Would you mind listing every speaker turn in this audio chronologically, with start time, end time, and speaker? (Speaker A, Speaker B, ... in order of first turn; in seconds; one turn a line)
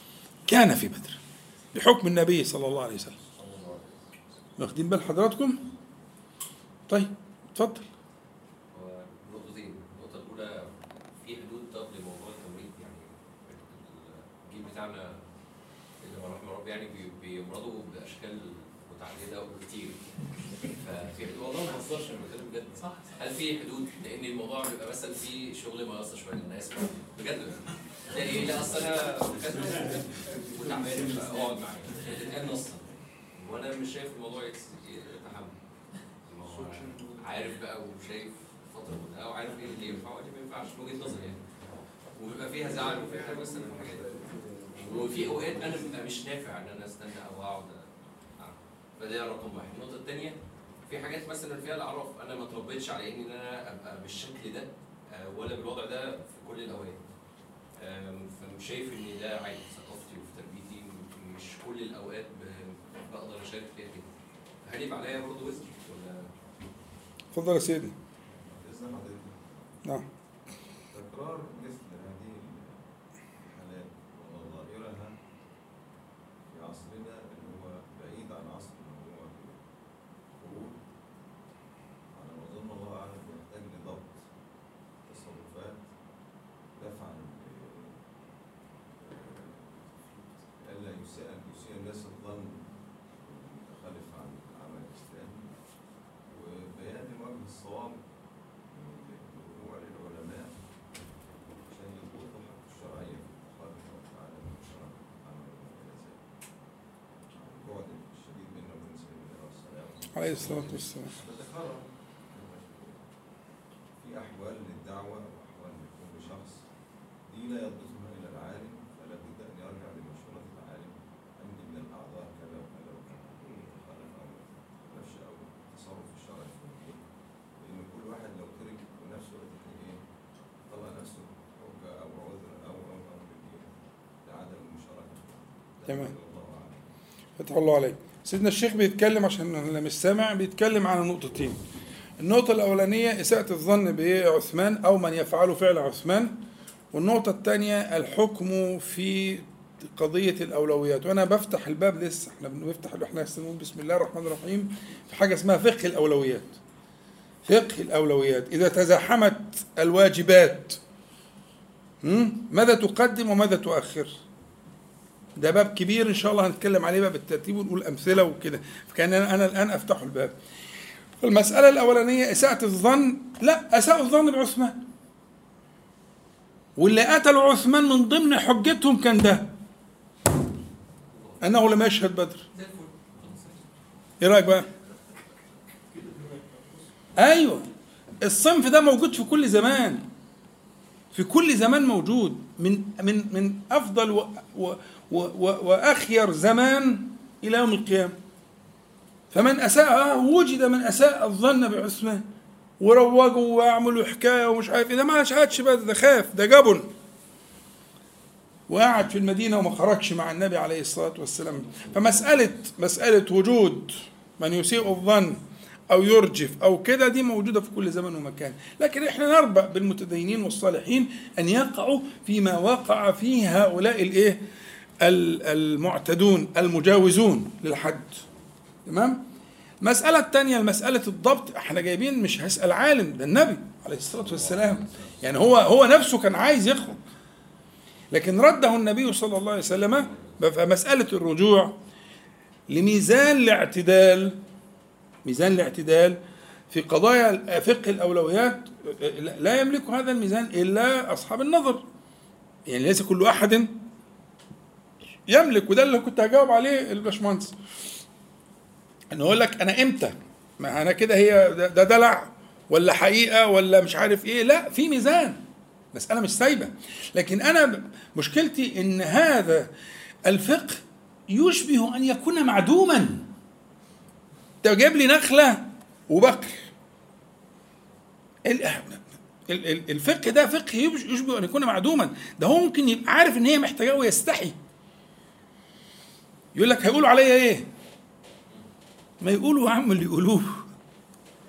Speaker A: 0.5-1.2
Speaker A: 1.7-3.1
Speaker B: 3.4-3.7
Speaker A: 4.6-5.6
Speaker A: 6.9-7.9
Speaker B: 8.7-15.2
Speaker B: 16.0-20.0
Speaker B: 20.8-35.5
Speaker B: 36.2-41.4
Speaker B: 42.1-44.2
Speaker C: 42.6-45.9
Speaker B: 44.8-47.8
Speaker B: 48.4-57.0
Speaker B: 57.8-64.1
Speaker B: 64.7-66.3
Speaker A: 67.3-67.9
Speaker C: 68.2-69.8
Speaker C: 70.9-72.8
Speaker C: 73.3-75.2
Speaker C: 76.5-79.6
Speaker C: 80.4-80.8
Speaker C: 82.1-84.2
Speaker C: 85.0-85.8
Speaker C: 86.7-88.0
Speaker C: 89.0-95.5
Speaker C: 96.3-98.0
Speaker C: 98.6-100.6
Speaker C: 101.6-106.2
Speaker C: 107.3-113.0
Speaker A: 110.1-111.1
Speaker C: 114.0-116.6
Speaker C: 117.2-127.0
Speaker C: 127.6-130.0
Speaker C: 130.7-136.8
Speaker A: 135.9-136.1
Speaker A: 137.4-141.6
Speaker A: 142.2-146.3
Speaker A: 146.9-156.6
Speaker A: 157.4-160.8
Speaker A: 162.0-164.2
Speaker A: 165.4-170.3
Speaker A: 171.2-174.8
Speaker A: 176.8-179.5
Speaker A: 181.4-182.4
Speaker B: 182.6-183.4
Speaker A: 184.2-184.7
Speaker A: 187.2-187.7
Speaker A: 188.2-190.1
Speaker A: 191.1-198.1
Speaker A: 199.3-202.2
Speaker A: 202.8-206.9
Speaker A: 208.7-224.4
Speaker A: 225.0-228.2
Speaker A: 228.9-229.2
Speaker A: 229.8-237.0
Speaker A: 238.1-241.8
Speaker A: 242.7-244.4
Speaker A: 245.2-246.2
Speaker A: 246.7-251.8
Speaker A: 252.7-253.7
Speaker A: 255.3-257.5
Speaker A: 259.1-265.4
Speaker A: 265.9-269.7
Speaker A: 270.2-273.2
Speaker A: 274.6-276.7
Speaker A: 278.4-284.6
Speaker A: 286.6-287.6
Speaker A: 289.2-290.6